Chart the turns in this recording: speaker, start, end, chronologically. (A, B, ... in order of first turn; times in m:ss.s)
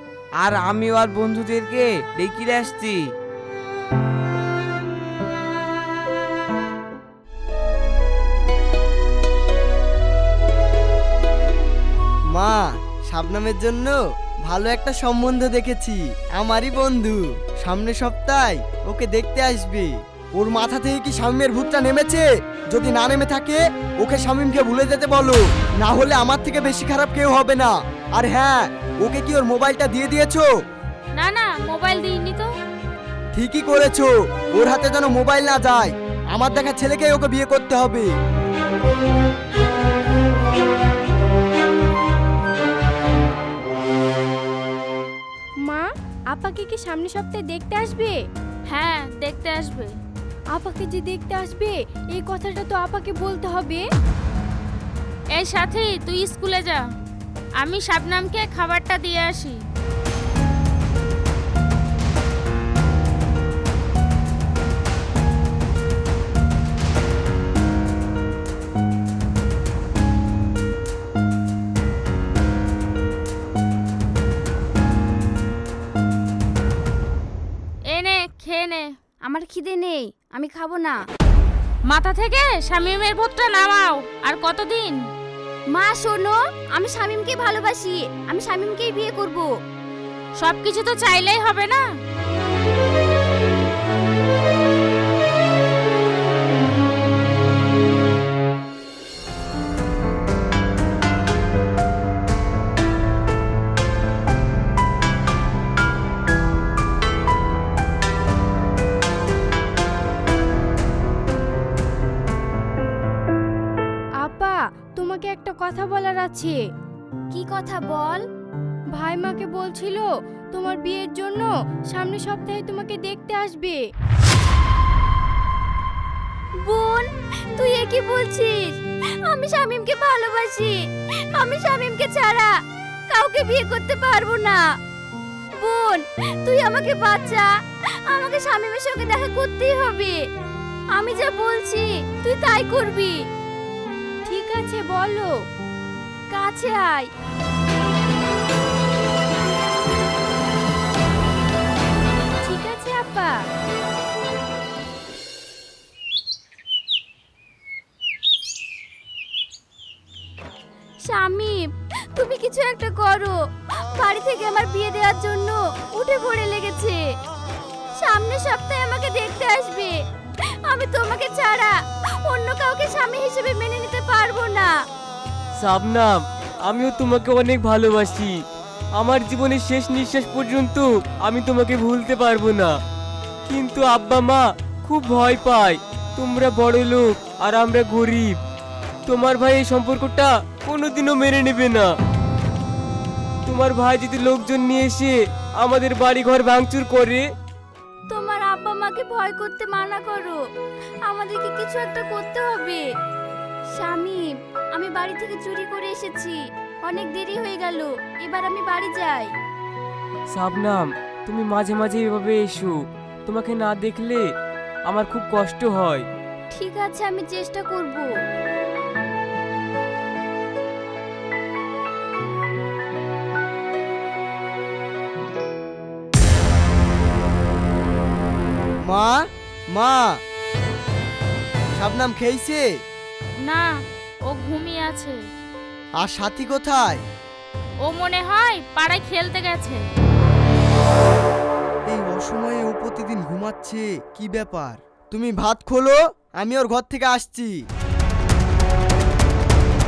0:00.4-0:03.0 A
0:12.3-0:30.5 B
0:31.2-0:32.5 C
0:33.3-0:38.1 B
0:45.6-0:48.2 D
0:48.7-0:49.9 C
0:50.5-0:53.8 D
0:55.4-0:56.8 C
0:57.6-0:59.6 C
1:17.9-1:18.9 C
1:19.2-1:21.0 E
1:21.9-1:25.0 C
1:25.7-1:29.5 E
1:30.4-1:31.8 C
1:54.2-1:56.6 D
1:57.3-1:58.2 E
1:59.0-2:03.8 D
2:06.6-2:08.6 E
2:09.2-2:10.7 E
2:11.3-2:12.5 E
2:13.1-2:14.6 E
2:15.6-2:17.5 E
2:18.1-2:20.2 E
2:20.9-2:23.1 E
2:24.3-2:25.3 D
2:26.3-2:27.1 E
2:32.4-2:33.3 D
2:41.1-2:41.6 E
2:42.1-2:43.4 E
2:44.0-2:47.0 E
2:48.0-2:49.9 E
2:50.6-2:54.7 E
2:55.6-2:56.1 F
2:56.7-2:58.3 F
2:59.0-3:02.7 F
3:03.5-3:08.4 F
3:09.0-3:11.8 F
3:13.4-3:17.2 F
3:18.1-3:20.4 E
3:21.0-3:22.8 E
3:23.7-3:24.2 E
3:24.7-3:29.3 E
3:30.3-3:32.7 F
3:33.2-3:34.0 F
3:34.9-3:36.0 F
3:36.5-3:38.1 E
3:48.9-3:50.2 B
3:51.8-3:52.6 B
3:53.4-3:53.7 C
3:54.3-3:55.2 C
3:56.0-3:57.0 B
3:57.8-3:59.8 C
4:01.9-4:07.6 B